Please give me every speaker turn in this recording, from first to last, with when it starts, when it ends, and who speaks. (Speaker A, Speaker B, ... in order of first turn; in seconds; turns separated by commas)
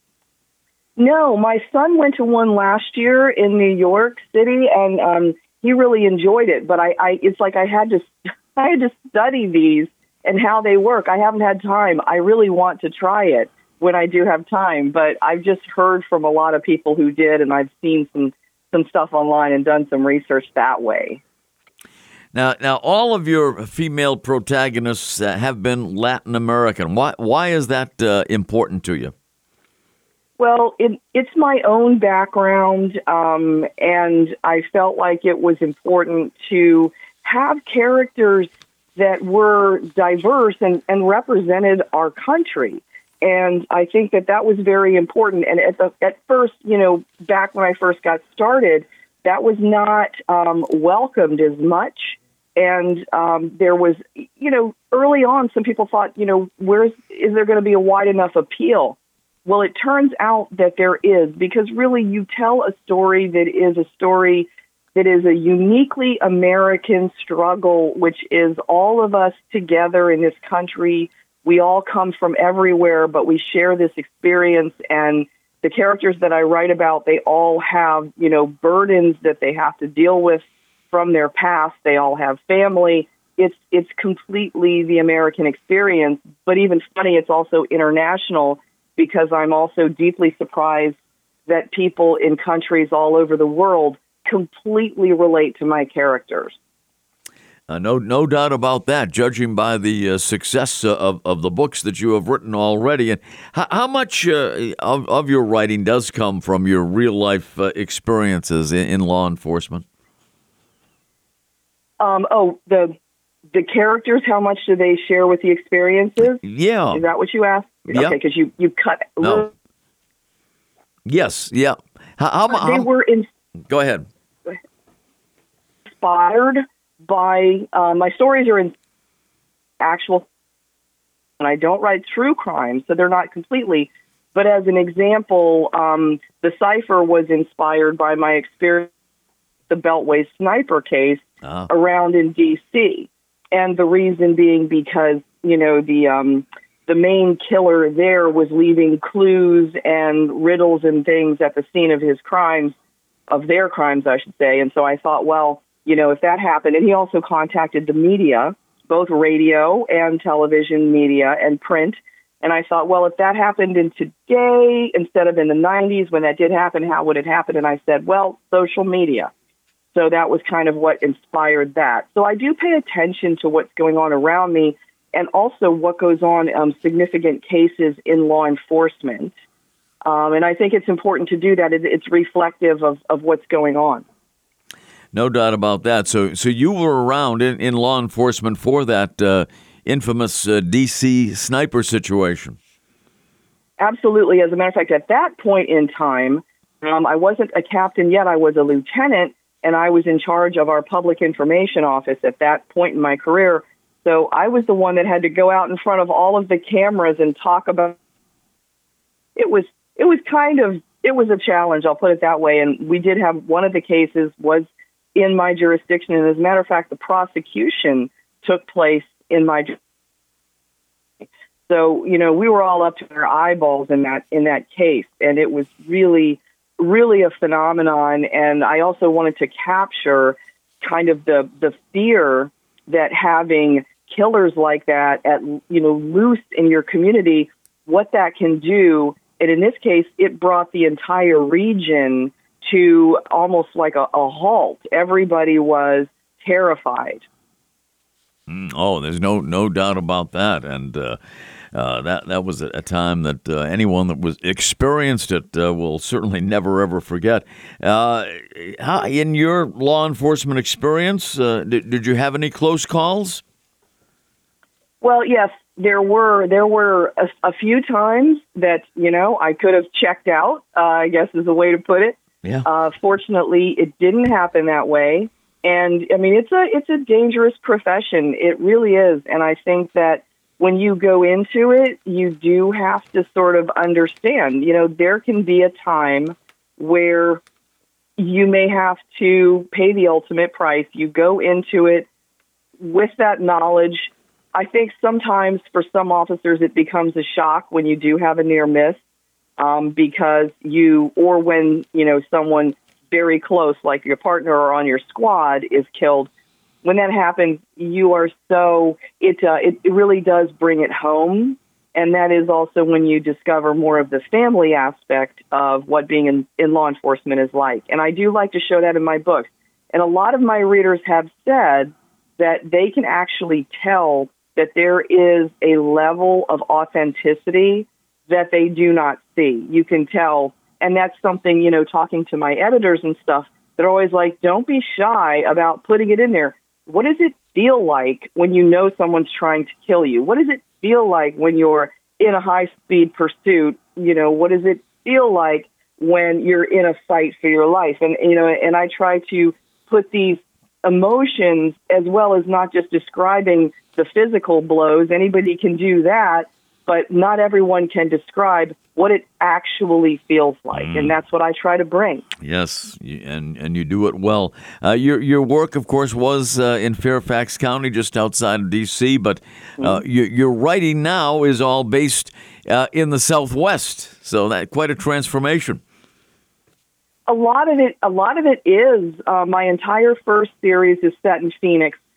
Speaker A: 1.0-21.2, Speaker B: 22.3-29.1, Speaker A: 30.4-91.0, Speaker A: 91.5-96.6, Speaker B: 97.7-109.8, Speaker A: 112.0-112.9, Speaker A: 113.5-116.4, Speaker B: 116.2-117.0, Speaker A: 116.9-119.5, Speaker B: 117.9-118.2, Speaker B: 119.2-119.5, Speaker B: 121.0-122.9, Speaker A: 122.5-123.3, Speaker B: 123.7-124.1, Speaker A: 125.8-128.7, Speaker A: 129.8-130.2, Speaker A: 131.4-138.9, Speaker A: 139.7-152.8, Speaker B: 141.4-141.7, Speaker A: 153.3-169.3, Speaker A: 169.9-179.3, Speaker A: 180.1-184.0, Speaker B: 185.1-192.6, Speaker A: 193.8-208.0, Speaker A: 209.3-219.8, Speaker A: 221.7-247.2, Speaker B: 248.5-251.2, Speaker B: 251.7-263.4, Speaker A: 265.0-287.4, Speaker A: 288.2-292.1, Speaker A: 292.8-299.0, Speaker A: 299.6-306.3, Speaker A: 306.8-362.2, Speaker B: 360.7-361.1, Speaker B: 362.4-375.8, Speaker A: 377.3-382.0